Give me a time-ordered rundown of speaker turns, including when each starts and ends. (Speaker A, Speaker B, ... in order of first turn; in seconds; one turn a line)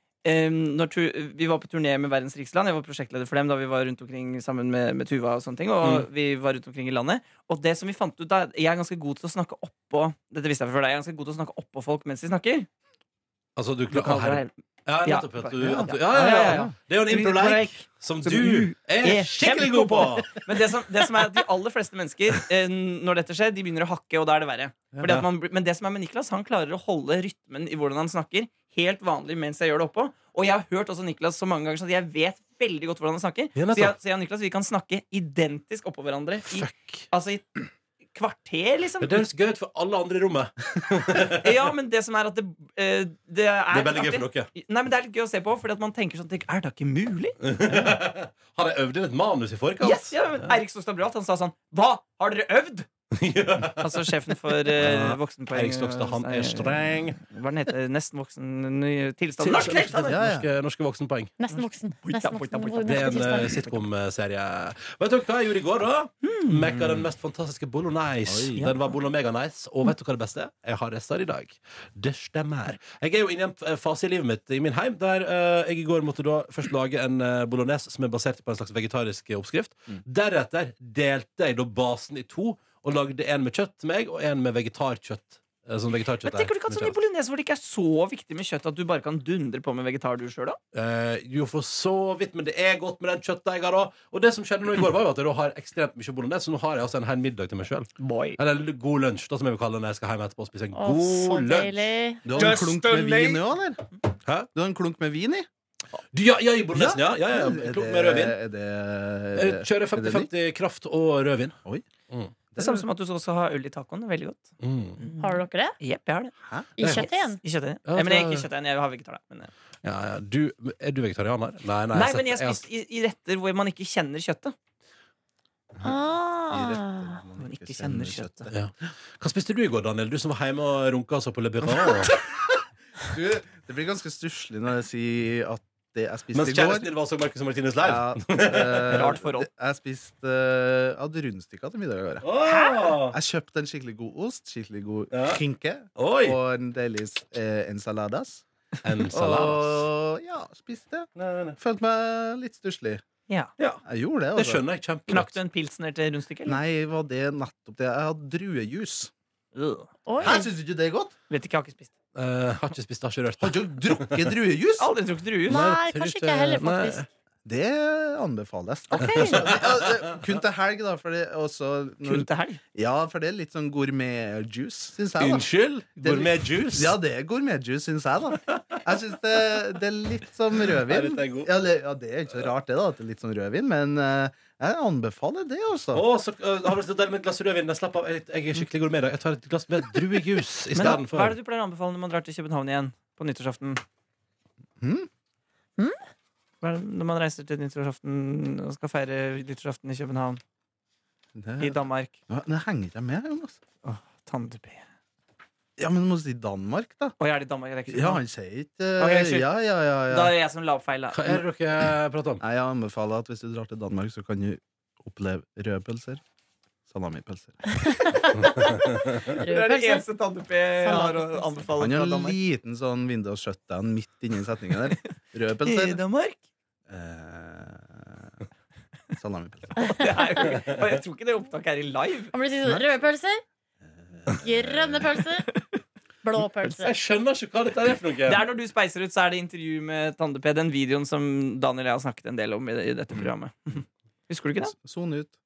Speaker A: 0.2-12.7
Speaker B: 5.8-6.1
Speaker B: 13.6-20.5
Speaker A: 13.9-14.5
Speaker A: 15.1-37.6
Speaker C: 16.1-16.7
Speaker B: 25.0-25.3
Speaker B: 33.5-34.0
Speaker B: 36.5-37.0
Speaker A: 38.1-39.3
Speaker B: 39.0-41.7
Speaker A: 41.3-47.9
Speaker B: 43.7-44.5
Speaker B: 47.4-50.6
Speaker A: 49.8-52.9
Speaker B: 53.1-54.1
Speaker A: 53.8-60.2
Speaker B: 54.7-57.2
Speaker B: 59.4-61.3
Speaker C: 60.0-60.5
Speaker D: 61.4-63.6
Speaker A: 61.5-63.8
Speaker B: 62.9-87.0
Speaker A: 66.2-67.1
Speaker C: 68.3-68.7
Speaker A: 86.2-90.6
Speaker B: 90.7-101.9
Speaker A: 98.0-98.4
Speaker D: 100.7-102.2
Speaker C: 102.2-103.8
Speaker A: 102.3-103.4
Speaker C: 104.5-105.5
Speaker B: 106.1-108.4
Speaker C: 106.7-110.3
Speaker B: 109.4-111.6
Speaker C: 112.5-112.9
Speaker A: 112.6-119.5
Speaker B: 114.6-115.0
Speaker D: 115.2-115.8
Speaker C: 116.4-116.7
Speaker D: 116.8-117.4
Speaker B: 116.8-117.1
Speaker B: 117.9-118.5
Speaker B: 119.8-122.6
Speaker A: 121.9-124.5
Speaker D: 125.8-127.2
Speaker C: 126.5-128.5
Speaker A: 127.4-128.5
Speaker B: 128.5-132.1
Speaker C: 133.0-136.9
Speaker B: 136.3-139.1
Speaker C: 137.8-142.3
Speaker A: 138.9-139.5
Speaker B: 142.2-143.2
Speaker C: 143.1-148.4
Speaker B: 145.1-145.4
Speaker B: 146.0-146.4
Speaker B: 148.8-149.9
Speaker C: 149.1-153.0
Speaker B: 151.2-151.6
Speaker A: 153.3-153.8
Speaker C: 153.8-154.6
Speaker B: 154.4-155.3
Speaker A: 155.1-156.6
Speaker C: 156.5-159.1
Speaker A: 159.6-159.9
Speaker D: 160.1-160.5
Speaker C: 160.2-161.2
Speaker A: 161.3-161.9
Speaker B: 162.2-164.3
Speaker C: 163.4-164.9
Speaker A: 164.8-165.7
Speaker D: 165.5-167.1
Speaker B: 165.5-167.1
Speaker C: 167.4-175.5
Speaker A: 168.9-169.5
Speaker B: 169.1-169.4
Speaker A: 172.1-172.6
Speaker B: 175.2-176.9
Speaker C: 176.0-186.1
Speaker B: 180.7-181.5
Speaker B: 185.9-191.4
Speaker A: 190.7-193.8
Speaker C: 194.8-195.1
Speaker A: 196.6-200.4
Speaker C: 201.4-203.6
Speaker A: 201.6-202.2
Speaker A: 203.8-204.8
Speaker C: 205.8-207.2
Speaker A: 207.2-208.2
Speaker C: 207.9-210.3
Speaker A: 209.0-209.5
Speaker A: 210.1-211.4
Speaker B: 211.1-212.4
Speaker C: 212.4-216.2
Speaker C: 216.9-218.2
Speaker D: 217.7-220.1
Speaker A: 219.3-222.4
Speaker D: 220.8-221.6
Speaker C: 221.8-226.0
Speaker A: 225.6-226.4
Speaker C: 226.9-228.3
Speaker C: 229.1-229.9
Speaker D: 229.8-230.2
Speaker A: 229.9-232.3
Speaker D: 232.3-233.4
Speaker C: 232.6-233.0
Speaker C: 233.8-235.1
Speaker D: 234.4-235.5
Speaker D: 236.2-236.9
Speaker B: 236.8-238.5
Speaker A: 238.3-244.7
Speaker C: 244.8-245.3